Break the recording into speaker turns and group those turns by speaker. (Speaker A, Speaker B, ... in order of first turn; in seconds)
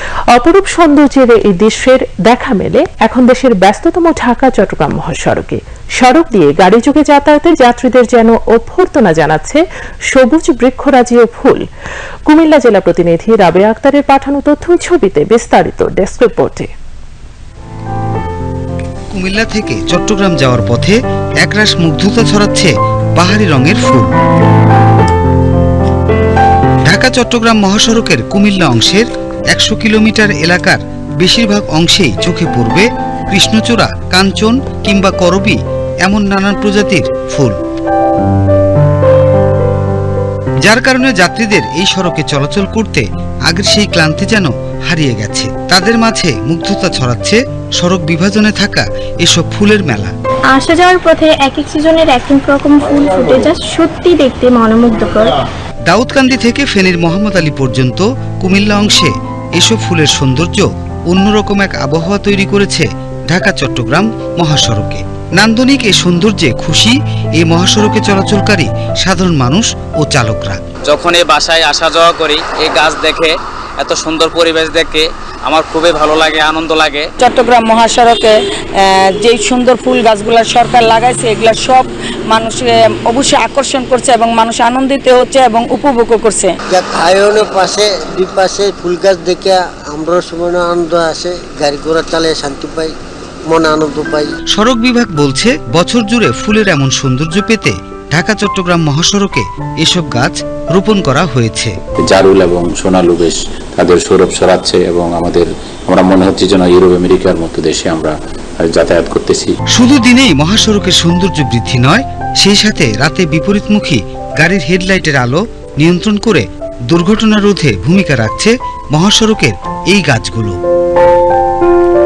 Speaker A: 0.3-11.6, 12.3-16.7
Speaker B: 19.1-24.1, 26.9-37.5, 40.7-50.1, 55.9-70.6, 94.5-101.7, 109.7-120.6
Speaker C: 50.5-55.3
Speaker D: 70.8-77.1
Speaker E: 77.2-86.5
Speaker F: 86.7-92.9, 93.5-94.3
Speaker G: 102.0-109.5